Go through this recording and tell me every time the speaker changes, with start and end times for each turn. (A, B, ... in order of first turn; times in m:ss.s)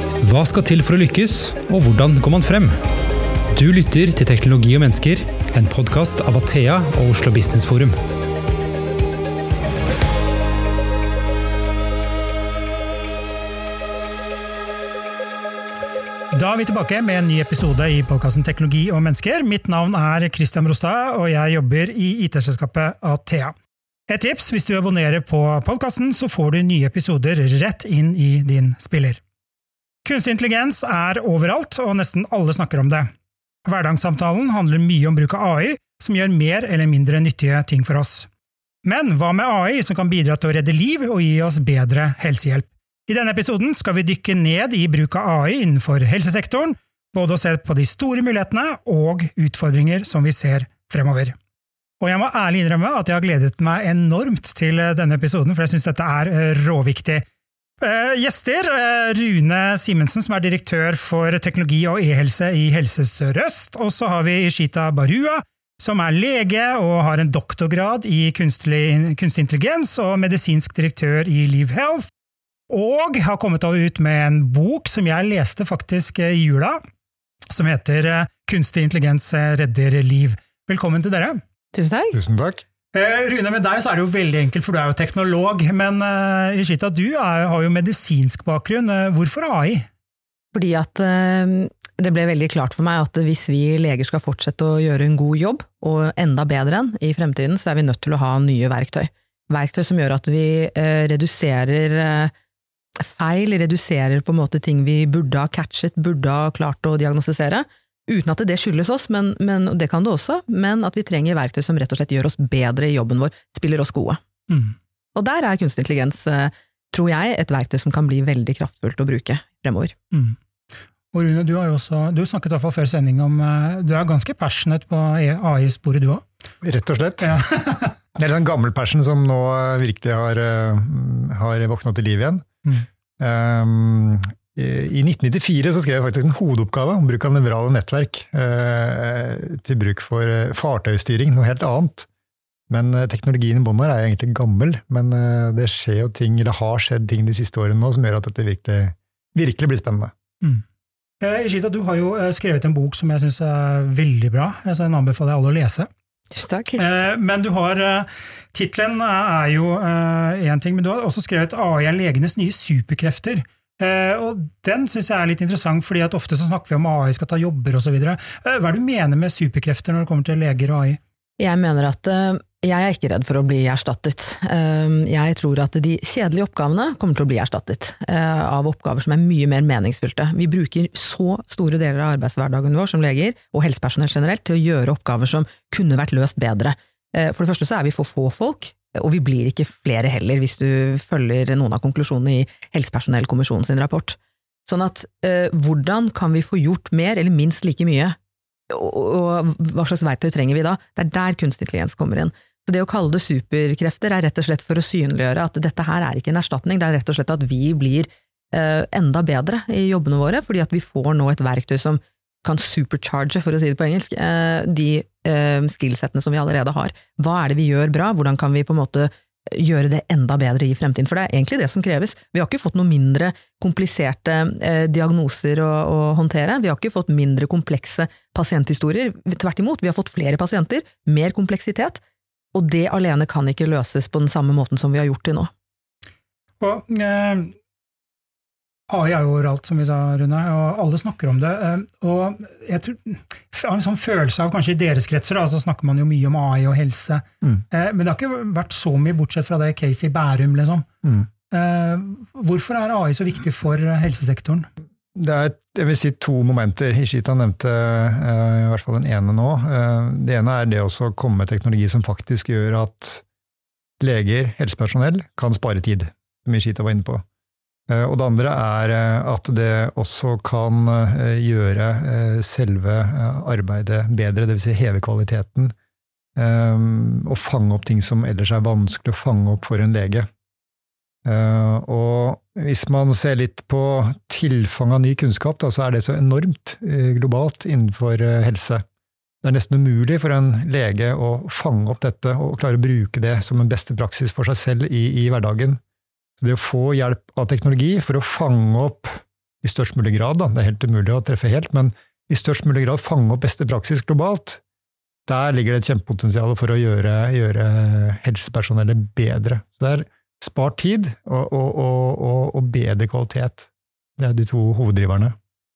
0:00.2-0:02.8 A
0:03.5-0:08.0 A
0:16.3-0:23.5 B
0:24.1-0:29.2 B
0:30.0-0:33.1 B
0:33.7-0:38.3 B
0:38.8-0:51.4 B
0:52.0-0:57.2 B
0:57.8-1:12.1 B
1:12.7-1:16.8 B
1:17.5-1:21.4 B
1:21.7-1:22.2 C
1:22.1-1:22.6 D
1:22.9-1:29.9 B
1:30.5-1:42.3 C
1:43.0-1:54.2 C
1:54.5-1:54.8 B
1:55.2-1:59.9 C
2:00.1-2:00.4 B
2:01.1-2:06.2 B
2:06.6-2:07.3 D
2:07.2-2:08.0 B
2:08.2-2:12.5 D
2:13.2-2:22.1 D
2:22.7-2:30.1 D
2:31.2-2:35.9 B
2:36.3-2:36.8 C
2:36.8-2:51.0 B
2:51.4-3:18.2 C
3:18.7-3:52.0 C
3:52.5-3:55.5 C
3:56.6-3:57.5 B
3:58.9-4:10.9 B
4:11.5-4:14.7 B
4:15.2-4:23.2 D
4:24.0-4:27.2 D
4:27.9-4:35.7 D
4:36.4-4:40.3 D
4:41.2-4:48.8 D
4:49.4-4:55.8 D
4:56.4-5:04.6 D
5:05.3-5:15.4 D